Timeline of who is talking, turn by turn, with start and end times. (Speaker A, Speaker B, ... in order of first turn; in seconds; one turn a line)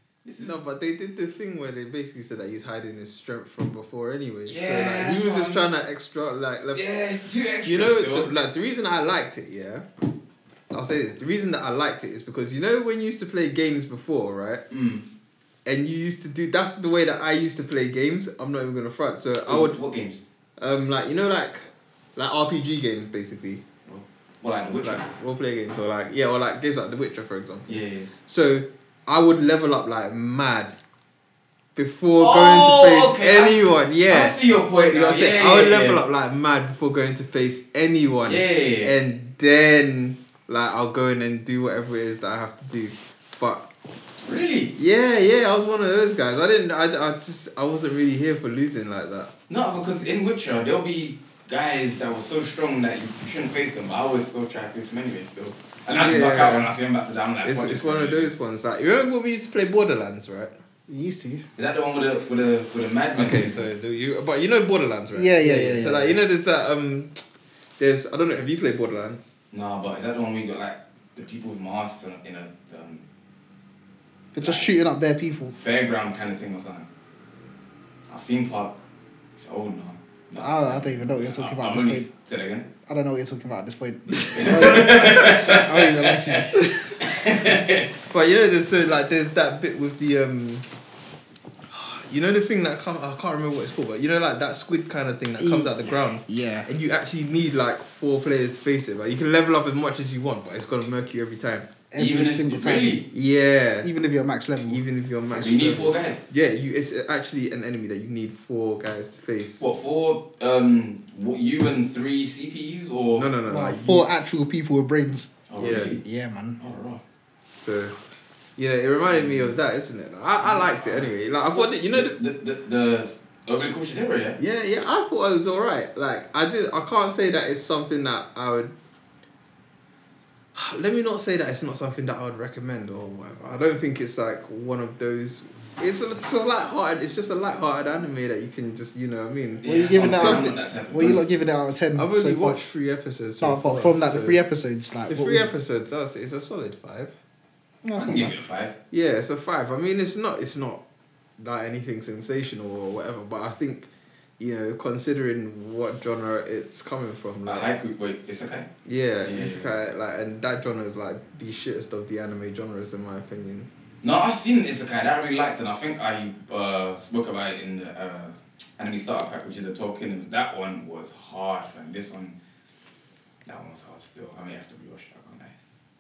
Speaker A: 0.2-0.5
Speaker B: 0.4-6.8
Speaker A: 4.5-5.7
Speaker A: 6.7-8.3
Speaker B: 7.6-9.9
Speaker B: 10.7-14.6
Speaker A: 14.7-15.1
Speaker B: 15.7-19.8
Speaker A: 19.5-20.2
Speaker B: 20.6-23.6
Speaker A: 23.9-25.0
Speaker B: 24.8-30.8
Speaker A: 27.7-28.1
Speaker B: 31.8-43.7
Speaker A: 32.2-36.0
Speaker A: 38.3-38.9
Speaker A: 44.2-44.7
Speaker B: 44.8-49.3
Speaker A: 49.5-58.3
Speaker B: 55.9-56.7
Speaker B: 57.4-60.5
Speaker C: 60.9-61.4
Speaker A: 61.6-63.6
Speaker B: 63.1-67.2
Speaker C: 65.1-66.2
Speaker B: 67.8-69.3
Speaker A: 69.5-73.0
Speaker C: 74.3-75.5
Speaker A: 74.4-74.8
Speaker A: 75.5-76.9
Speaker A: 78.1-78.8
Speaker A: 79.4-82.7
Speaker C: 80.4-82.1
Speaker C: 82.9-86.6
Speaker A: 84.2-87.9
Speaker B: 88.1-90.7
Speaker B: 91.7-101.7
Speaker C: 95.4-96.7
Speaker C: 101.9-103.0
Speaker A: 102.0-103.0
Speaker B: 103.1-103.9
Speaker C: 103.8-104.8
Speaker B: 104.7-109.6
Speaker A: 105.4-106.2
Speaker A: 109.6-113.3
Speaker B: 113.1-114.1
Speaker C: 113.5-115.3
Speaker A: 115.5-116.0
Speaker B: 115.6-116.0
Speaker C: 116.0-116.6
Speaker A: 116.6-117.0
Speaker B: 117.6-117.9
Speaker B: 118.6-122.2
Speaker A: 119.0-119.5
Speaker A: 120.4-124.4
Speaker B: 124.4-128.7
Speaker B: 130.6-140.5
Speaker A: 139.6-141.3
Speaker C: 139.6-142.6
Speaker B: 141.9-144.4
Speaker C: 143.4-145.5
Speaker B: 145.1-147.1
Speaker C: 147.8-148.3
Speaker A: 148.0-148.8
Speaker B: 148.9-150.8
Speaker B: 151.4-153.9
Speaker B: 154.4-157.7
Speaker A: 157.5-158.7
Speaker B: 158.8-163.7
Speaker A: 159.2-159.7
Speaker A: 164.0-172.3
Speaker A: 173.5-175.5